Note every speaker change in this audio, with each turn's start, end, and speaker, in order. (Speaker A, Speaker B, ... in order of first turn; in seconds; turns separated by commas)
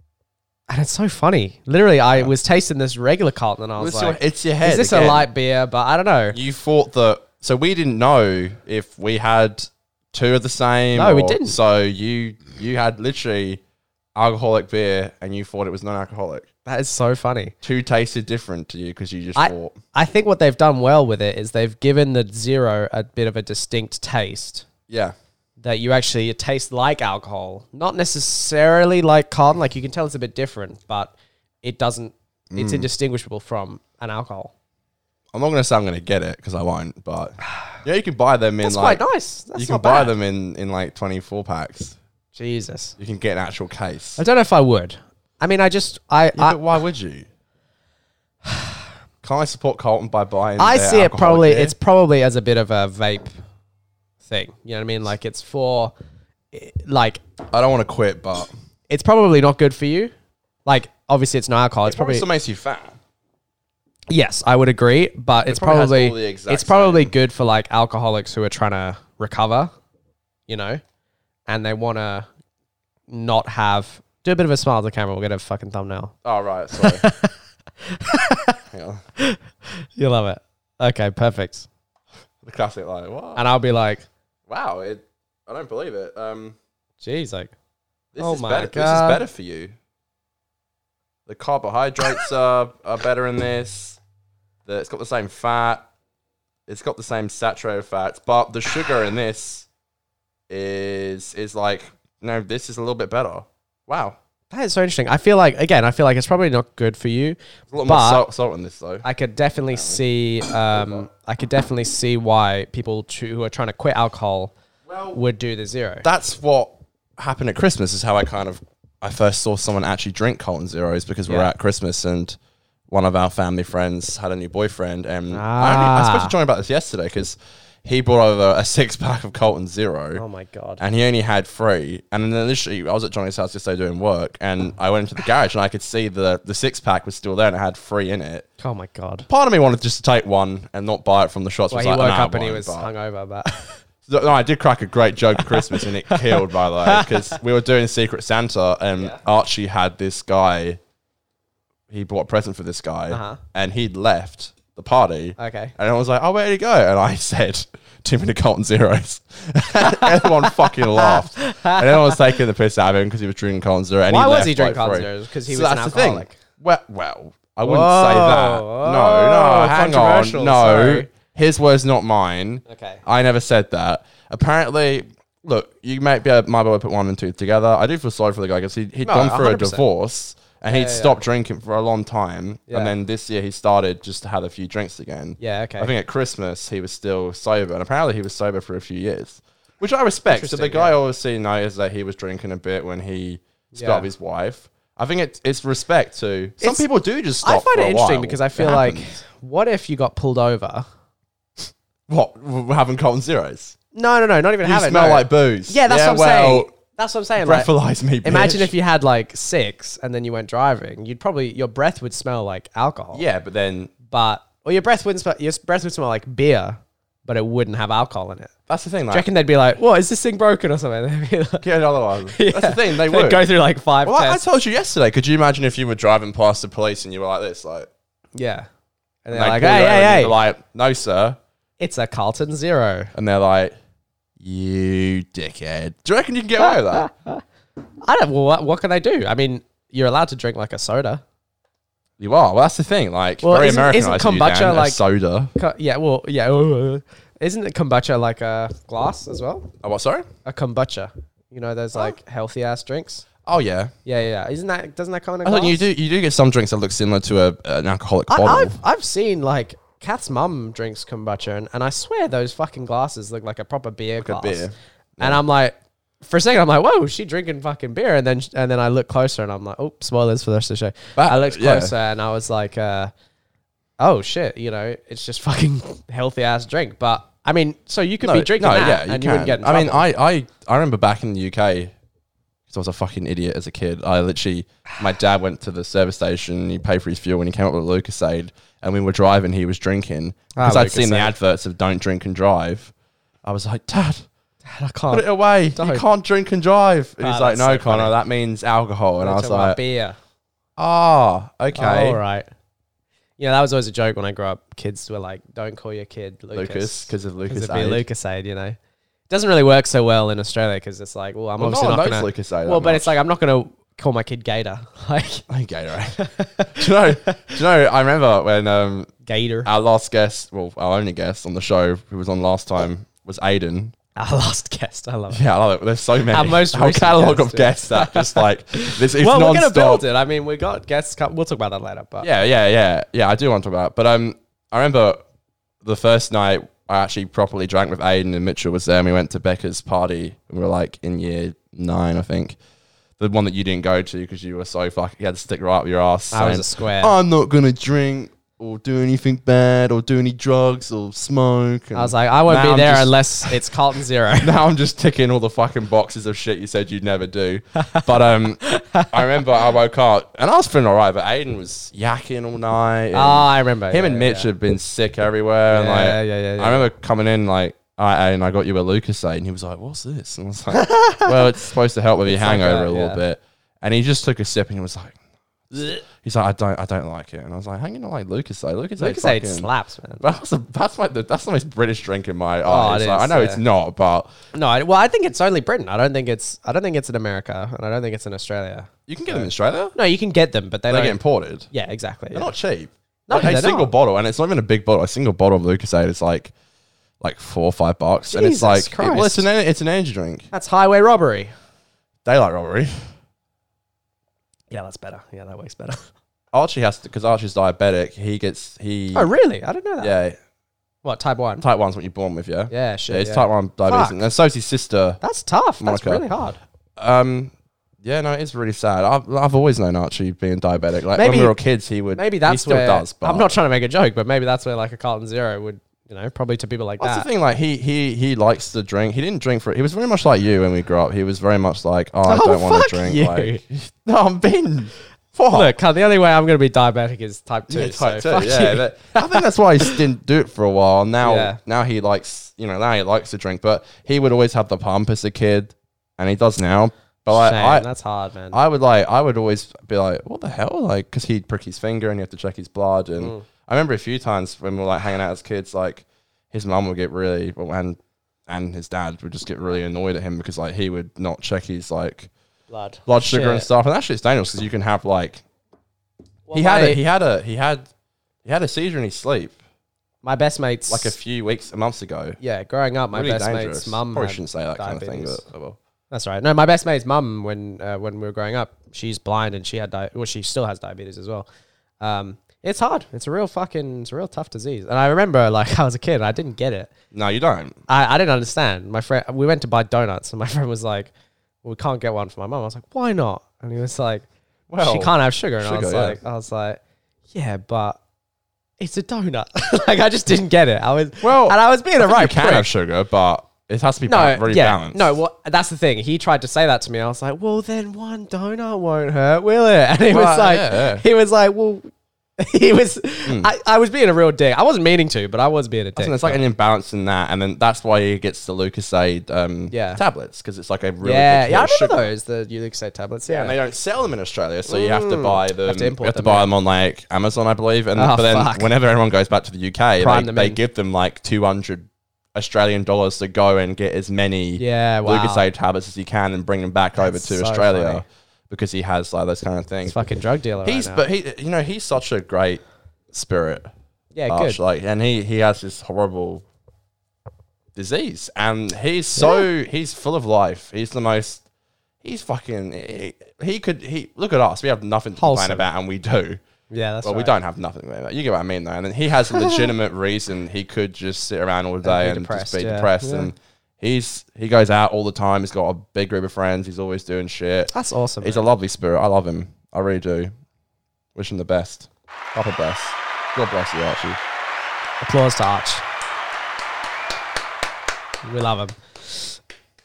Speaker A: 0.7-6.4, Speaker B: 3.8-5.3, Speaker B: 6.3-13.6, Speaker A: 10.9-11.6, Speaker B: 14.1-16.5, Speaker A: 16.6-17.5, Speaker B: 17.6-19.8, Speaker A: 19.4-24.6, Speaker B: 24.9-25.1, Speaker A: 25.6-34.5, Speaker B: 32.5-32.9, Speaker B: 35.3-39.0, Speaker A: 38.6-40.1, Speaker B: 39.5-42.0, Speaker A: 42.3-43.0, Speaker B: 43.0-44.2, Speaker A: 44.2-46.6, Speaker B: 46.4-47.3, Speaker A: 48.5-48.8, Speaker B: 49.2-51.7, Speaker A: 50.6-53.3, Speaker A: 54.2-55.9, Speaker A: 56.5-57.2, Speaker B: 57.5-58.5, Speaker A: 58.9-60.1, Speaker A: 60.6-62.2, Speaker B: 61.9-63.0, Speaker A: 64.1-69.7, Speaker B: 65.5-67.1, Speaker A: 70.5-70.8, Speaker A: 71.5-72.3, Speaker A: 73.1-76.1, Speaker B: 76.2-77.0, Speaker A: 76.7-78.6, Speaker B: 78.7-79.0, Speaker A: 79.2-81.7, Speaker B: 82.4-83.4, Speaker A: 83.3-84.0, Speaker B: 84.5-86.5, Speaker A: 87.0-87.5, Speaker B: 88.1-89.7, Speaker A: 88.2-89.2, Speaker B: 91.3-94.0, Speaker B: 94.7-95.8, Speaker B: 96.7-99.7, Speaker B: 100.5-104.2, Speaker A: 104.5-108.2, Speaker B: 107.7-109.0, Speaker A: 109.0-114.5, Speaker B: 109.7-110.0, Speaker B: 114.9-115.2, Speaker A: 115.1-116.0, Speaker B: 116.0-122.4, Speaker B: 122.9-130.2, Speaker A: 125.3-126.3, Speaker A: 130.2-130.8, Speaker B: 130.8-138.4, Speaker A: 138.6-139.3, Speaker B: 139.3-142.9, Speaker A: 141.7-143.8, Speaker B: 144.1-150.8, Speaker A: 145.4-147.1, Speaker B: 151.9-199.1, Speaker A: 153.1-153.4, Speaker A: 155.4-155.7, Speaker A: 159.8-162.2, Speaker A: 164.1-166.4, Speaker A: 167.6-171.1, Speaker A: 172.7-173.0, Speaker A: 179.0-179.8, Speaker A: 180.7-181.2, Speaker A: 182.7-182.9, Speaker A: 185.4-185.9, Speaker A: 190.3-190.9, Speaker A: 193.7-194.1, Speaker A: 197.4-200.8, Speaker B: 202.1-203.8, Speaker A: 203.9-207.7, Speaker B: 204.6-206.7, Speaker B: 207.4-208.7, Speaker A: 208.2-213.2, Speaker B: 213.1-213.9, Speaker A: 214.0-218.5, Speaker B: 218.7-219.3, Speaker A: 219.1-221.7, Speaker B: 221.6-223.4, Speaker A: 222.3-224.4, Speaker B: 224.0-227.9, Speaker A: 228.3-228.7, Speaker A: 229.2-230.3, Speaker B: 229.3-231.4, Speaker A: 231.8-233.1, Speaker B: 233.1-233.7, Speaker B: 234.4-237.1, Speaker A: 236.6-237.4, Speaker A: 238.0-241.2, Speaker B: 242.2-245.5, Speaker A: 243.4-245.0, Speaker A: 245.5-249.7, Speaker B: 249.8-250.3, Speaker A: 250.4-253.2, Speaker B: 253.4-253.9, Speaker A: 254.1-255.8, Speaker B: 255.4-258.8, Speaker A: 258.3-273.1, Speaker B: 264.2-265.4, Speaker B: 271.1-271.9, Speaker A: 274.0-280.0, Speaker B: 278.2-281.9, Speaker B: 282.7-292.9, Speaker A: 290.5-291.3, Speaker B: 293.4-294.2, Speaker A: 294.6-296.1, Speaker B: 295.1-299.8, Speaker A: 297.2-298.1, Speaker A: 299.2-300.2, Speaker B: 300.8-302.2, Speaker A: 301.7-302.5, Speaker A: 303.4-308.8, Speaker B: 306.5-308.0, Speaker A: 309.3-315.4, Speaker B: 311.6-313.1, Speaker B: 315.5-316.2, Speaker A: 316.1-317.6, Speaker B: 316.7-319.1, Speaker A: 319.2-319.7, Speaker B: 319.6-323.9, Speaker A: 324.1-325.4, Speaker B: 325.3-330.0, Speaker A: 326.3-332.3, Speaker B: 332.2-335.2, Speaker B: 335.8-342.6, Speaker B: 343.2-353.6, Speaker A: 346.3-347.1, Speaker A: 351.9-354.5, Speaker B: 354.4-375.1, Speaker A: 357.8-358.1, Speaker A: 358.6-359.4, Speaker A: 363.1-364.5, Speaker A: 365.7-366.9, Speaker A: 370.7-371.4, Speaker A: 372.3-373.2, Speaker B: 375.7-379.7, Speaker A: 379.0-380.2, Speaker B: 380.2-384.3, Speaker A: 382.6-383.6, Speaker A: 384.5-391.2, Speaker B: 389.1-389.9, Speaker B: 390.9-391.7, Speaker A: 391.7-392.5, Speaker B: 392.3-396.5, Speaker A: 393.3-393.9, Speaker B: 397.2-400.5, Speaker A: 398.3-399.5, Speaker A: 400.5-401.5, Speaker B: 402.2-403.0, Speaker A: 404.7-406.1, Speaker B: 406.5-409.3, Speaker A: 409.1-410.1, Speaker B: 410.0-410.4, Speaker A: 411.0-411.6, Speaker B: 411.6-415.2, Speaker A: 412.7-414.2, Speaker A: 415.2-416.6, Speaker B: 415.8-416.2, Speaker B: 417.0-423.5, Speaker A: 421.1-421.6, Speaker A: 422.1-427.3, Speaker B: 427.0-435.7, Speaker A: 432.2-433.6, Speaker A: 435.5-440.0, Speaker B: 437.7-447.9, Speaker A: 441.2-441.6, Speaker A: 447.3-448.6, Speaker B: 448.5-462.3, Speaker A: 453.2-453.4, Speaker A: 462.7-463.7, Speaker B: 463.1-465.4, Speaker A: 466.5-467.0, Speaker B: 466.5-467.9, Speaker B: 468.4-469.6, Speaker A: 470.2-471.1, Speaker B: 470.9-472.4, Speaker A: 472.4-475.4, Speaker B: 473.1-475.8, Speaker A: 476.1-481.4, Speaker A: 482.0-486.9, Speaker B: 487.1-487.8, Speaker A: 487.9-491.1, Speaker A: 491.6-494.2, Speaker B: 494.7-496.2, Speaker A: 494.8-496.8, Speaker A: 497.3-498.0, Speaker A: 498.8-502.7, Speaker B: 501.2-505.1, Speaker A: 504.1-516.4, Speaker B: 510.1-511.0, Speaker B: 513.2-513.5, Speaker B: 516.0-522.0, Speaker A: 519.7-520.0, Speaker A: 521.0-523.5, Speaker B: 523.3-540.0, Speaker A: 524.7-526.5, Speaker A: 528.0-528.7, Speaker A: 530.0-530.6, Speaker A: 534.6-535.4, Speaker A: 537.0-538.0, Speaker A: 539.8-541.0, Speaker B: 540.6-543.7, Speaker A: 544.1-544.6, Speaker B: 544.3-546.4, Speaker B: 547.8-551.4, Speaker A: 549.1-549.5, Speaker B: 552.0-556.4, Speaker A: 555.2-555.6, Speaker A: 556.7-557.3, Speaker B: 557.0-570.3, Speaker A: 559.3-559.6, Speaker A: 561.8-563.3, Speaker A: 567.7-568.4, Speaker B: 571.1-574.2, Speaker A: 575.0-575.8, Speaker A: 578.2-579.4